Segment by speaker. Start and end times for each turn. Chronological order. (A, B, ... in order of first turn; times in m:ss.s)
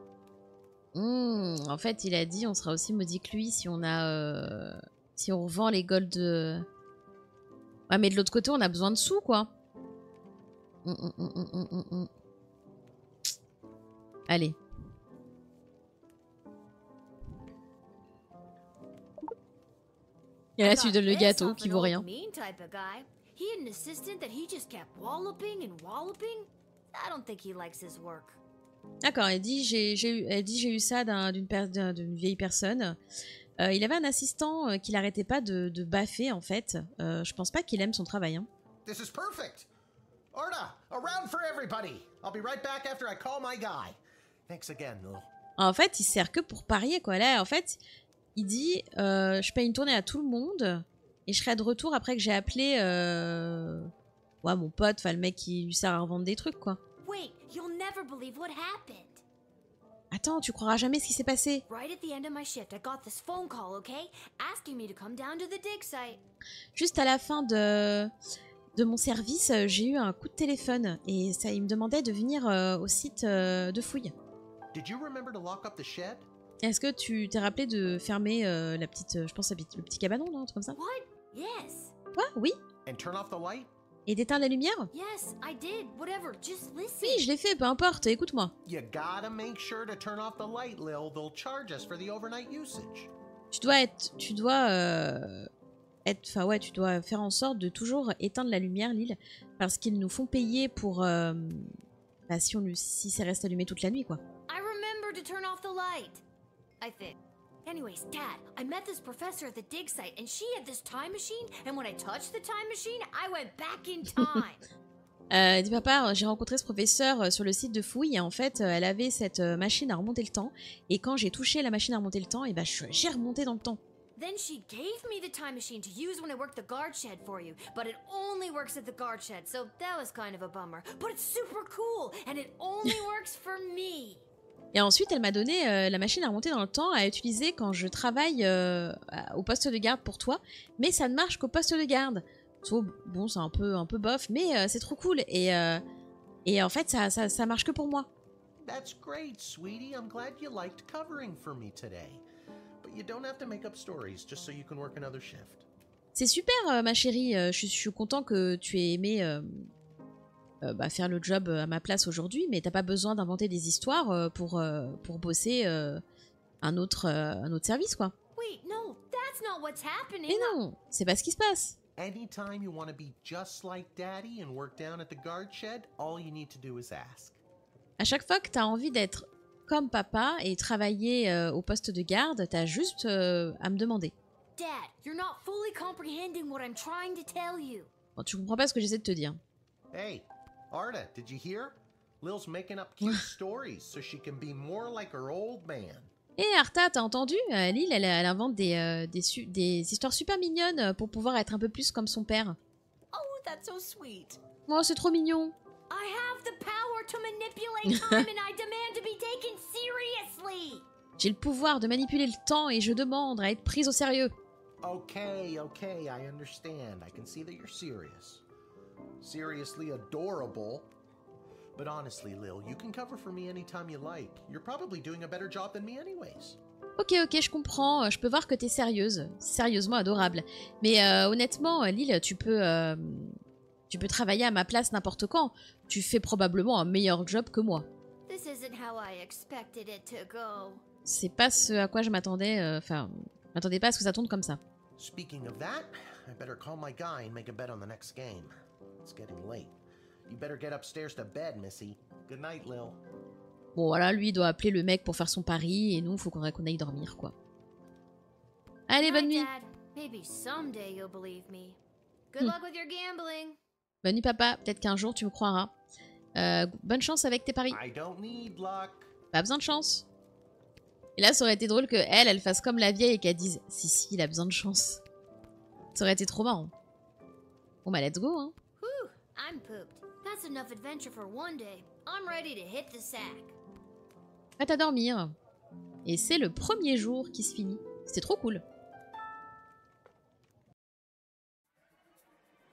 0:00.9-0:06.6 A
0:07.9-0:09.5 A
0:10.8-0:12.1 A
0:14.3-0:14.6 A
0:20.6-0:22.0 A
0:20.6-0:28.4 B
0:29.0-0:33.0 A
0:33.6-0:38.5 A
0:38.8-0:39.7 C
0:40.3-0:45.3 C
0:45.6-0:47.8 A
0:48.4-0:53.9 A
0:54.4-0:56.8 A
0:57.0-0:59.2 B
1:00.1-1:01.6 A
1:01.7-1:06.2 B
1:06.7-1:08.1 A
1:08.8-1:14.1 A
1:14.7-1:16.3 C
1:16.6-1:20.8 A
1:20.8-1:21.9 B
1:22.2-1:22.6 A
1:22.8-1:23.7 C
1:24.1-1:24.9 A
1:24.9-1:27.3 B
1:27.0-1:28.5 A
1:28.6-1:33.1 C
1:33.5-1:35.5 A
1:36.0-1:41.7 A
1:42.3-1:44.2 A
1:44.5-1:46.2 B
1:46.8-1:54.6 B
1:55.3-2:03.8 A
2:04.2-2:14.2 B
2:14.7-2:25.8 A
2:26.4-2:28.1 A
2:28.6-2:32.2 C
2:32.8-2:35.6 C
2:36.1-2:39.7 A
2:40.6-2:46.0 A
2:46.6-2:48.1 A
2:48.4-2:50.6 B
2:50.3-2:51.8 A
2:52.0-2:57.4 C
2:58.0-3:04.1 A
3:04.6-3:07.9 B
3:08.2-3:09.4 A
3:09.9-3:16.1 C
3:16.4-3:22.6 A
3:23.1-3:24.4 B
3:24.7-3:25.5 A
3:25.9-3:30.8 B
3:27.9-3:28.2 A
3:31.2-3:34.4 A
3:34.8-3:38.4 C
3:39.2-3:40.9 C
3:41.7-3:46.6 C
3:47.0-3:53.4 A
3:53.9-3:57.8 A
3:58.3-4:00.8 B
4:01.0-4:04.6 A
4:05.0-4:08.5 C
4:09.0-4:09.7 C
4:10.3-4:13.0 C
4:13.7-4:17.3 A
4:18.9-4:19.5 A
4:19.0-4:21.8 B
4:22.3-4:23.6 B
4:24.0-4:25.7 A
4:26.4-4:27.8 A
4:27.7-4:29.1 C
4:29.3-4:30.0 A
4:31.2-4:35.0 A
4:35.9-4:36.7 A
4:37.8-4:38.6 A
4:38.8-4:43.6 B
4:44.6-4:45.3 A
4:46.0-4:48.6 A